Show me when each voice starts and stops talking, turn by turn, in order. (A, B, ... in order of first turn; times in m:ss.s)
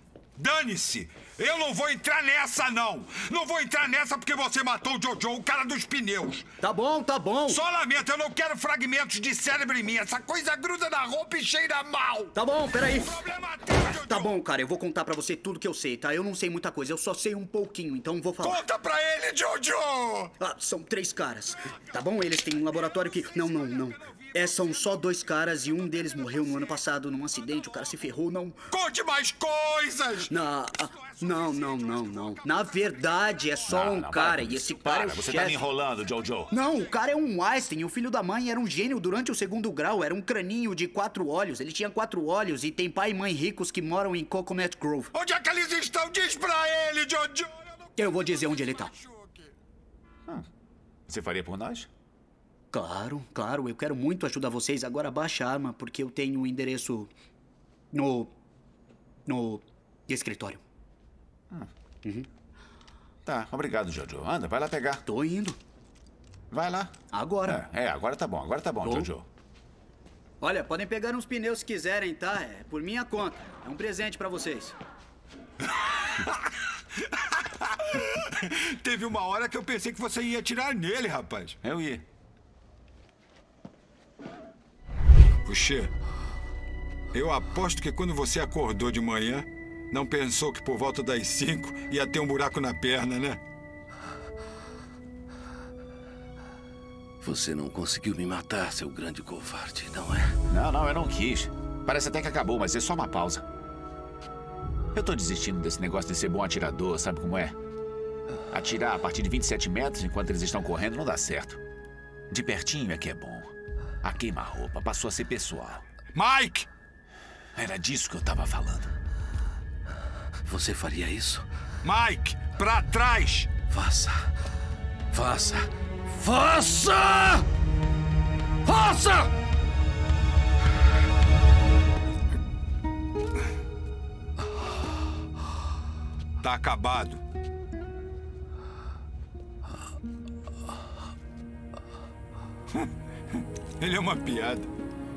0:00.4-0:06.5 A
0:06.6-0:07.6 B
0:07.5-0:14.3 A
0:12.3-0:13.2 B
0:13.9-0:18.6 B
0:18.4-0:20.3 A
0:20.4-0:28.6 B
0:23.0-0:25.0 A
0:28.7-0:32.9 A
0:30.3-0:35.6 B
0:33.7-0:36.5 C
0:36.5-0:45.1 B
0:45.1-0:49.5 A
0:48.0-0:48.9 B
0:51.1-0:51.9 C
0:52.7-0:57.1 B
0:57.9-0:58.3 B
0:59.2-1:00.6 B
1:03.2-1:05.0 C
1:05.0-1:05.6 B
1:06.5-1:06.9 C
1:07.1-1:07.6 B
1:07.5-1:09.2 C
1:08.8-1:09.1 B
1:10.4-1:14.8 B
1:16.1-1:16.4 A
1:17.3-1:21.6 A
1:21.6-1:22.0 C
1:25.4-1:25.9 A
1:27.1-1:33.4 A
1:37.2-1:40.3 D
1:40.5-1:43.4 C
1:44.9-1:47.6 C
1:48.5-1:51.6 C
1:52.3-1:55.8 C
1:56.1-1:56.7 A
1:57.5-1:58.9 C
2:00.5-2:01.4 D
2:01.8-2:03.5 A
2:03.7-2:04.3 D
2:05.1-2:07.4 D
2:08.6-2:09.3 D
2:16.4-2:17.2 A
2:23.8-2:24.7 A